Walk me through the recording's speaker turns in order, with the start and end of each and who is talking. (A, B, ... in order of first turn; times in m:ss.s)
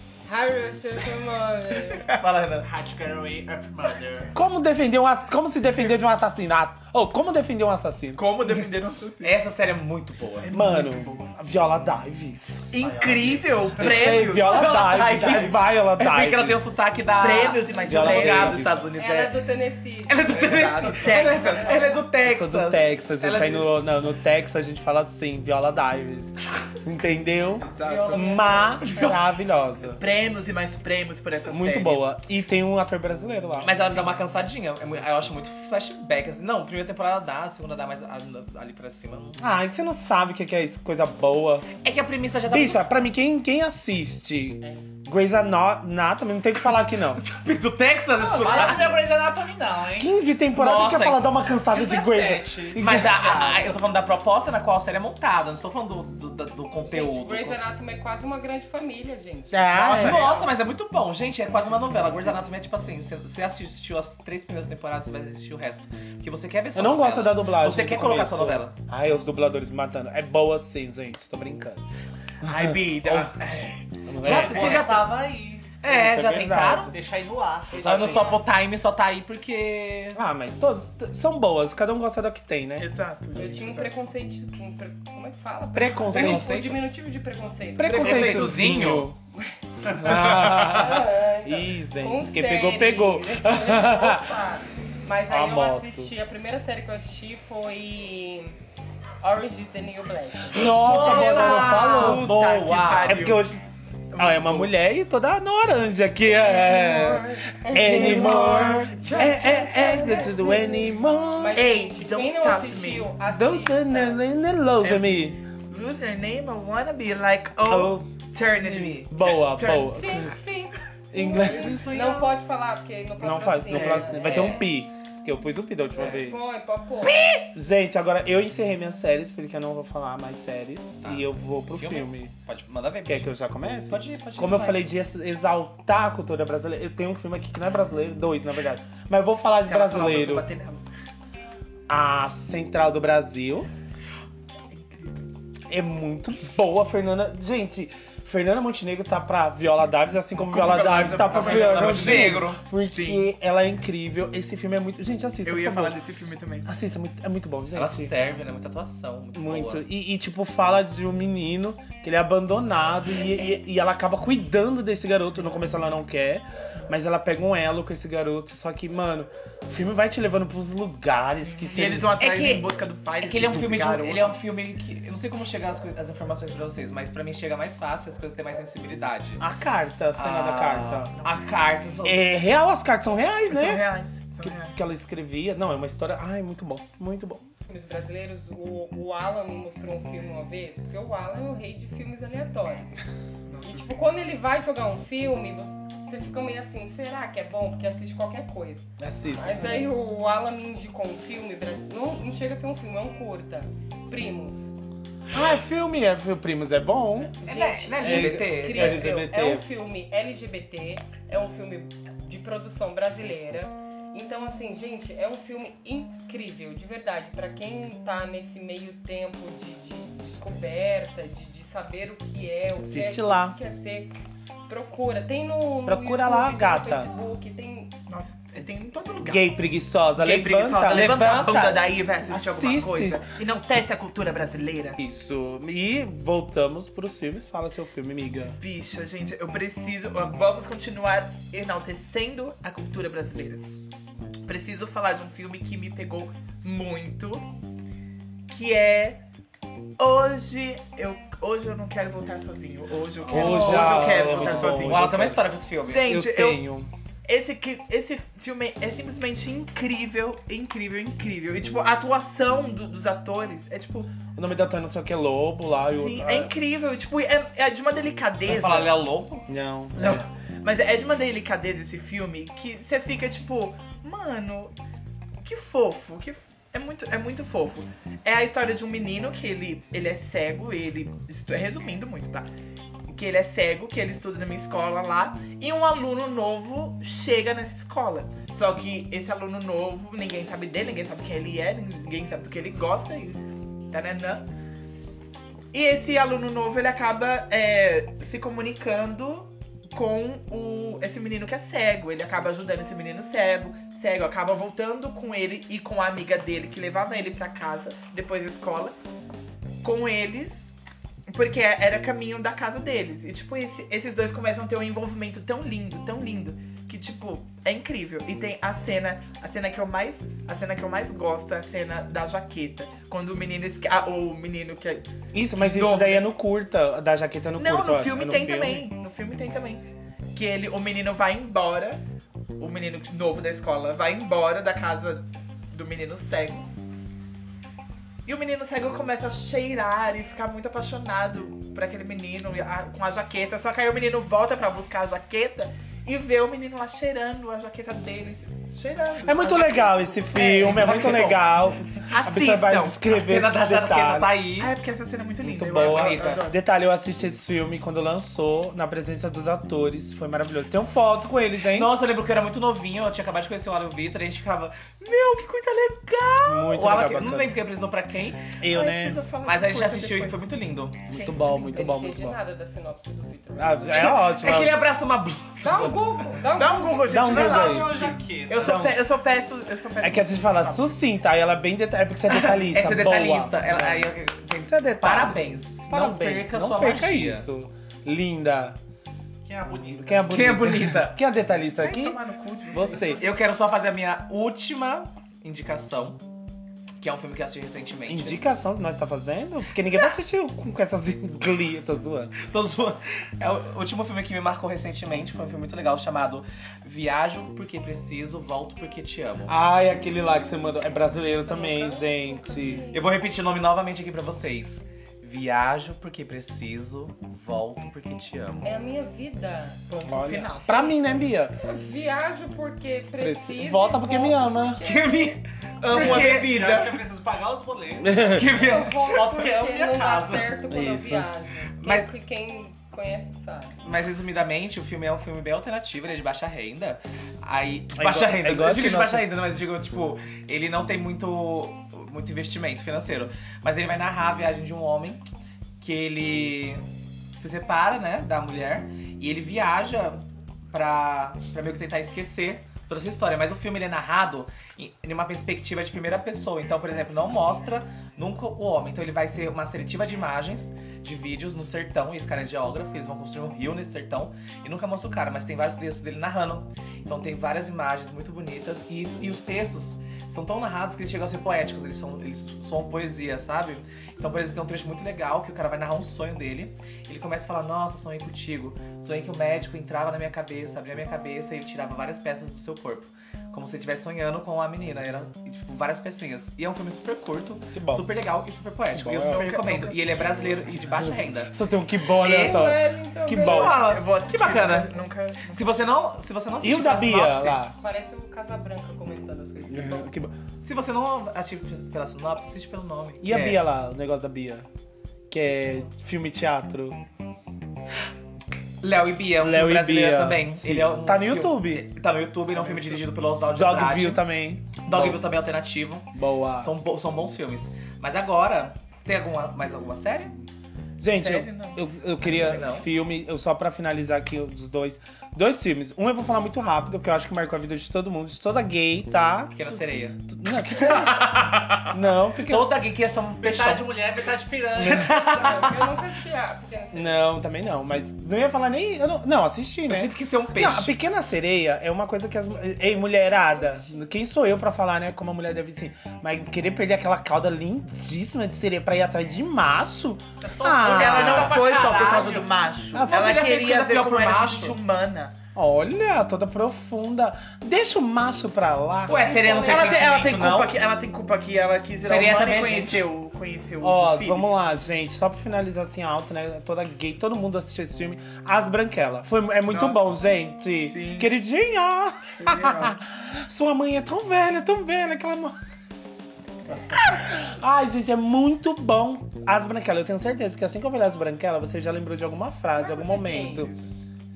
0:00.3-0:02.1 A
0:02.1-0:02.7 B
0:02.6-0:04.4 C
0:04.3-0:08.2 D
0:08.2-0:09.4 E
0:09.2-0:10.5 B
0:10.4-0:11.3 E
0:10.5-0:12.7 D
0:12.7-0:15.5 E
0:12.8-0:13.9 C
0:13.7-0:16.6 D
0:14.0-0:19.3 B
0:17.2-0:18.7 E
0:17.8-0:18.8 D
0:19.0-0:22.0 A
0:20.1-0:23.7 B
0:20.3-0:21.9 E
0:22.2-0:30.0 D
0:27.6-0:28.8 E
0:27.8-0:29.2 A
0:29.9-0:32.0 E
0:31.5-0:34.1 D
0:33.6-0:39.4 B
0:39.4-0:41.7 D
0:41.8-0:42.8 B
0:42.5-0:47.2 D
0:47.2-0:49.0 B
0:48.2-0:50.2 C
0:50.0-0:53.4 D
0:50.5-0:51.3 B
0:51.7-0:53.6 C
0:52.8-0:57.6 B
0:56.9-0:59.7 A
0:59.5-1:00.2 D
0:59.8-1:00.5 E
0:59.8-1:08.8 B
1:06.8-1:11.8 D
1:12.4-1:13.5 E
1:12.5-1:13.3 D
1:14.1-1:14.9 D
1:14.2-1:15.8 C
1:14.2-1:15.3 B
1:15.8-1:16.9 B
1:15.8-1:17.0 D
1:16.8-1:18.3 C
1:17.7-1:20.2 B
1:17.8-1:18.4 A
1:20.2-1:22.9 D
1:22.8-1:23.9 E
1:23.4-1:28.8 A
1:25.7-1:26.5 D
1:26.1-1:26.8 B
1:27.8-1:29.2 D
1:27.9-1:29.1 B
1:29.4-1:38.6 A
1:29.9-1:34.4 D
1:30.0-1:30.8 B
1:35.3-1:36.1 D
1:39.2-1:41.0 A
1:40.5-1:42.3 D
1:40.6-1:43.2 B
1:40.9-1:43.5 E
1:43.1-1:43.6 D
1:44.1-1:44.7 E
1:44.2-1:51.6 D
1:46.2-1:54.2 A
1:48.2-1:48.6 E
1:51.6-1:53.1 E
1:53.3-1:55.4 D
1:54.8-1:59.9 E
1:57.6-2:00.4 D
1:59.9-2:04.6 A
2:01.1-2:02.1 D
2:01.4-2:02.3 B
2:03.2-2:06.4 D
2:03.7-2:04.7 B
2:06.0-2:07.2 A
2:06.0-2:06.2 B
2:07.4-2:12.3 D
2:11.0-2:13.3 B
2:13.1-2:20.4 D
2:13.9-2:14.9 B
2:19.6-2:20.8 E
2:21.9-2:23.7 D
2:25.7-2:36.0 D
2:30.4-2:33.3 E
2:31.3-2:32.6 B
2:35.4-2:36.7 E
2:36.6-2:38.1 D
2:37.7-2:39.8 B
2:39.3-2:52.2 D
2:51.4-2:54.4 E
2:52.2-2:59.4 B
2:59.4-3:01.2 D
3:00.2-3:02.4 B
3:02.0-3:03.8 D
3:03.5-3:04.8 E
3:04.4-3:07.4 D
3:07.7-3:13.0 A
3:13.5-3:14.0 E
3:13.6-3:24.7 A
3:19.0-3:19.9 D
3:25.3-3:27.4 D
3:27.4-3:44.1 A
3:27.4-3:29.0 B
3:28.0-3:29.7 D
3:42.8-3:43.6 D
3:44.7-3:47.9 A
3:45.9-3:47.1 D
3:48.1-3:49.4 E
3:49.2-3:53.2 D
3:50.2-3:55.0 E
3:50.7-3:51.7 B
3:55.0-3:58.6 D
3:58.6-4:03.6 E
4:04.5-4:07.4 E
4:08.5-4:09.2 E
4:10.0-4:16.6 E
4:13.2-4:15.4 D
4:13.3-4:16.2 B
4:16.0-4:16.9 D
4:17.3-4:24.1 E
4:24.3-4:26.5 D
4:25.8-4:28.9 E
4:28.4-4:29.5 B
4:29.5-4:30.2 D
4:30.0-4:34.7 E
4:35.4-4:42.5 E
4:43.1-4:54.5 E
4:55.7-5:08.9 E
5:09.8-5:10.7 E
5:11.3-5:26.3 E
5:25.3-5:28.9 D
5:27.6-5:32.0 E
5:32.6-5:36.7 E
5:38.3-5:51.4 E
5:49.2-5:54.4 D
5:50.6-5:51.4 B
5:52.0-5:53.0 E
5:53.1-5:54.7 B
5:54.6-5:56.6 E
5:55.4-6:02.0 D
5:55.8-5:56.5 B
6:01.7-6:08.6 B
6:06.5-6:07.6 D
6:08.6-6:09.2 D
6:08.7-6:10.5 E
6:09.4-6:11.0 B
6:11.1-6:12.4 D
6:11.1-6:11.4 E
6:11.3-6:14.2 A
6:13.6-6:14.8 D
6:13.9-6:16.2 B
6:15.6-6:17.3 A
6:16.5-6:21.0 E
6:17.0-6:19.0 D
6:17.2-6:18.9 C
6:20.0-6:28.8 D
6:22.3-6:27.5 B
6:29.4-6:30.5 C
6:29.9-6:32.2 D
6:30.3-6:31.2 B
6:31.8-6:33.3 E
6:32.7-6:33.2 D
6:33.0-6:36.2 B
6:37.0-6:38.4 B
6:38.1-6:42.4 D
6:42.4-6:49.6 B
6:49.5-6:52.9 D
6:51.3-6:53.2 A
6:52.9-6:58.7 B
6:58.6-6:59.8 A
6:59.9-7:00.9 E
7:00.0-7:01.6 D
7:01.6-7:05.3 A
7:03.2-7:04.8 D
7:04.8-7:06.6 B
7:05.8-7:07.0 E
7:05.9-7:10.6 C
7:08.0-7:08.4 D
7:08.2-7:09.1 B
7:08.5-7:13.8 A
7:10.7-7:11.3 D
7:11.8-7:12.1 B
7:13.8-7:25.2 B
7:18.0-7:19.3 D
7:25.8-7:26.8 B
7:27.4-8:11.6 B
8:07.7-8:08.1 D
8:08.9-8:09.5 D
8:09.2-8:10.7 E
8:10.7-8:13.8 D
8:12.1-8:12.8 B
8:12.4-8:13.4 A
8:13.3-8:15.9 E
8:13.4-8:14.9 B
8:15.5-8:17.6 B
8:16.6-8:17.8 D
8:17.8-8:20.1 A
8:19.7-8:20.3 D
8:20.6-8:23.6 B
8:23.2-8:24.7 D
8:25.3-8:27.0 D
8:28.8-8:34.2 B
8:29.4-8:31.9 D
8:32.7-8:33.0 E
8:33.5-8:35.2 D
8:34.8-8:40.4 B
8:36.1-8:36.7 D
8:41.0-8:52.8 D
8:41.1-8:41.8 E
8:42.2-8:42.9 B
8:49.5-8:51.8 B
8:52.4-8:54.0 B
8:53.4-8:55.5 C
8:54.8-8:55.9 B
8:54.8-8:55.2 D
8:55.1-8:57.3 A
8:56.9-9:11.6 D
8:59.9-9:01.0 B
9:03.1-9:04.0 A
9:10.4-9:12.6 C
9:10.8-9:15.3 E
9:12.9-9:13.4 D
9:13.0-9:14.8 B
9:15.6-9:19.4 D
9:19.1-9:20.3 A
9:19.1-9:20.8 B
9:19.5-9:24.5 E
9:22.0-9:23.1 B
9:23.8-9:35.6 D
9:29.7-9:30.0 E
9:30.8-9:31.3 E
9:32.4-9:33.0 E
9:36.7-9:43.7 D
9:42.8-9:43.7 A
9:43.5-9:43.7 E